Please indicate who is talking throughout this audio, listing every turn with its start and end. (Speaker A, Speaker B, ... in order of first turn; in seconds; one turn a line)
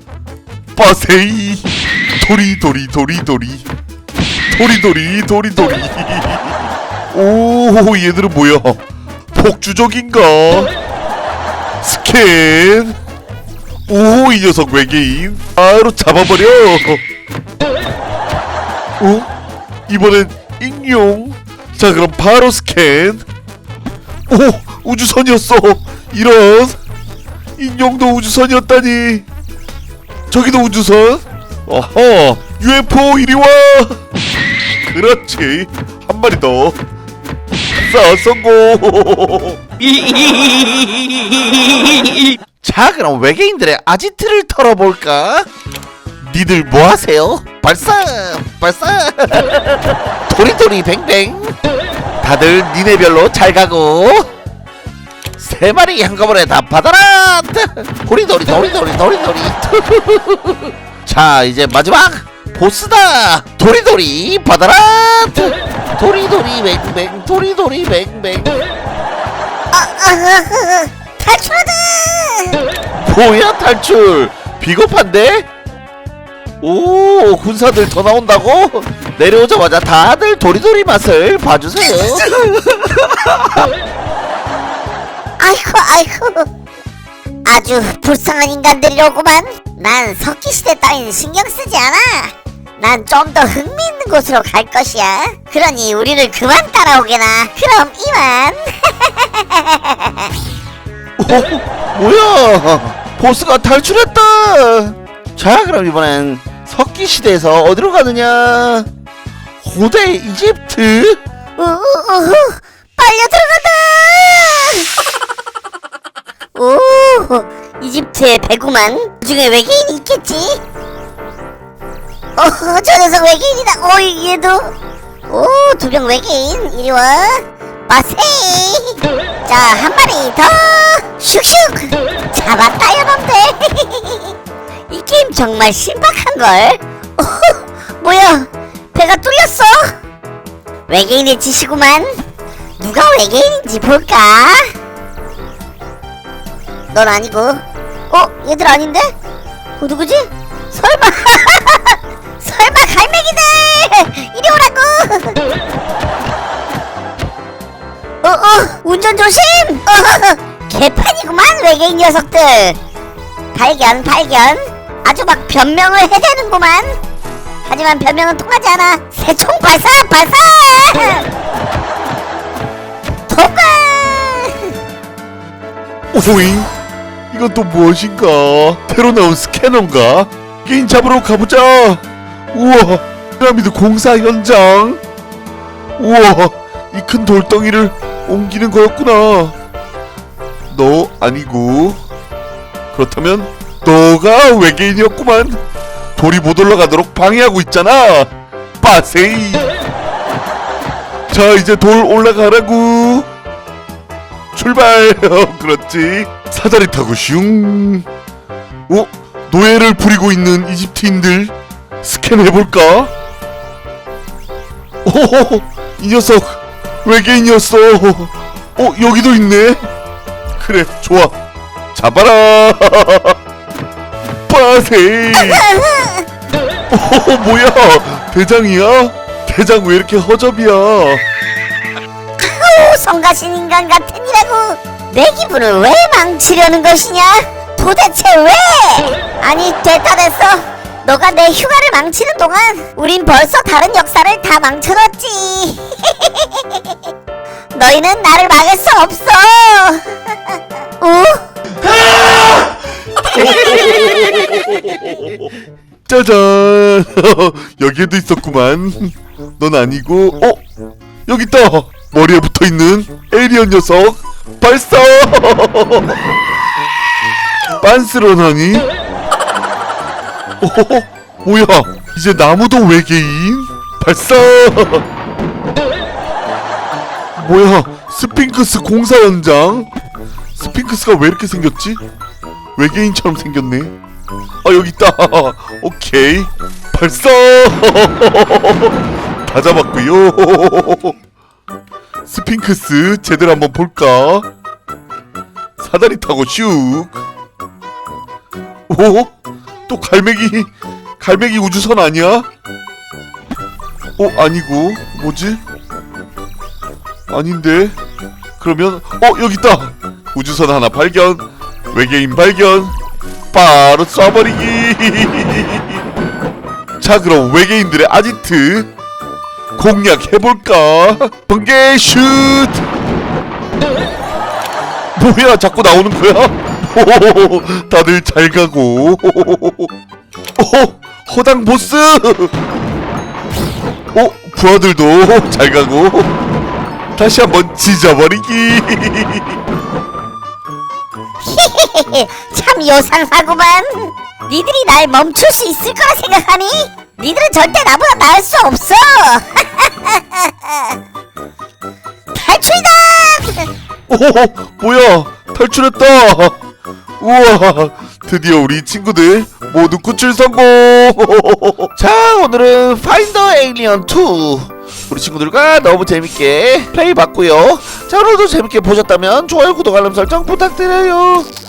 Speaker A: 0.8-3.7
Speaker A: 4.5-8.8
Speaker A: 9.3-10.7
Speaker A: 11.8-13.0
Speaker A: 13.9-17.0
Speaker A: 19.0-19.3
Speaker A: 19.9-23.2
Speaker A: 24.3-26.8
Speaker A: 27.6-29.2
Speaker A: 30.3-34.0
Speaker A: 34.9-36.8
Speaker A: 37.7-39.6
Speaker B: 39.9-45.5
Speaker B: 46.2-51.5
Speaker B: 52.2-54.3
Speaker B: 55.4-68.6
Speaker C: 69.7-72.6
Speaker B: 73.0-75.5
Speaker B: 76.6-83.6
Speaker C: 85.4-86.5
Speaker C: 87.5-100.3
Speaker B: 101.2-108.9
Speaker B: 109.6-111.2
Speaker C: 111.6-114.9
Speaker C: 116.5-120.6
Speaker C: 122.4-124.7
Speaker C: 125.3-134.3
Speaker C: 134.9-139.9
Speaker C: 140.9-142.1
Speaker C: 142.8-144.7
Speaker C: 146.9-149.1
Speaker C: 149.8-155.4
Speaker C: 158.2-162.8
Speaker C: 163.5-167.0
Speaker C: 167.7-171.3
Speaker C: 173.3-174.7
Speaker A: 176.1-176.7
Speaker A: 177.3-185.0
Speaker A: 186.0-189.6
Speaker A: 190.7-192.0
Speaker A: 192.9-195.6
Speaker A: 196.2-199.8
Speaker A: 201.3-203.3
Speaker A: 204.5-208.1
Speaker A: 208.9-213.1
Speaker A: 215.1-219.9
Speaker A: 220.6-221.3
Speaker A: 221.9-223.4
Speaker A: 224.5-225.6
Speaker C: 225.3-226.2
Speaker A: 226.9-231.2
Speaker C: 232.4-246.9
Speaker C: 247.7-251.4
Speaker A: 253.4-254.5
Speaker A: 256.1-260.6
Speaker A: 261.3-266.2
Speaker A: 267.8-268.9
Speaker A: 270.6-275.1
Speaker A: 277.4-279.9
Speaker A: 280.6-282.0
Speaker A: 282.8-283.9
Speaker A: 284.6-291.2
Speaker A: 292.3-294.5
Speaker A: 295.8-297.2
Speaker A: 298.9-299.3
Speaker A: 299.9-302.5
Speaker A: 304.2-305.6
Speaker A: 307.3-307.9
Speaker A: 308.6-312.9
Speaker A: 313.5-316.0
Speaker A: 317.0-318.9
Speaker A: 319.8-322.9
Speaker A: 325.1-329.9
Speaker A: 330.6-332.5
Speaker A: 334.1-336.3
Speaker A: 337.2-339.6
Speaker C: 341.4-351.0
Speaker C: 352.3-353.7
Speaker A: 354.1-356.6
Speaker A: 357.2-361.9
Speaker B: 362.0-371.5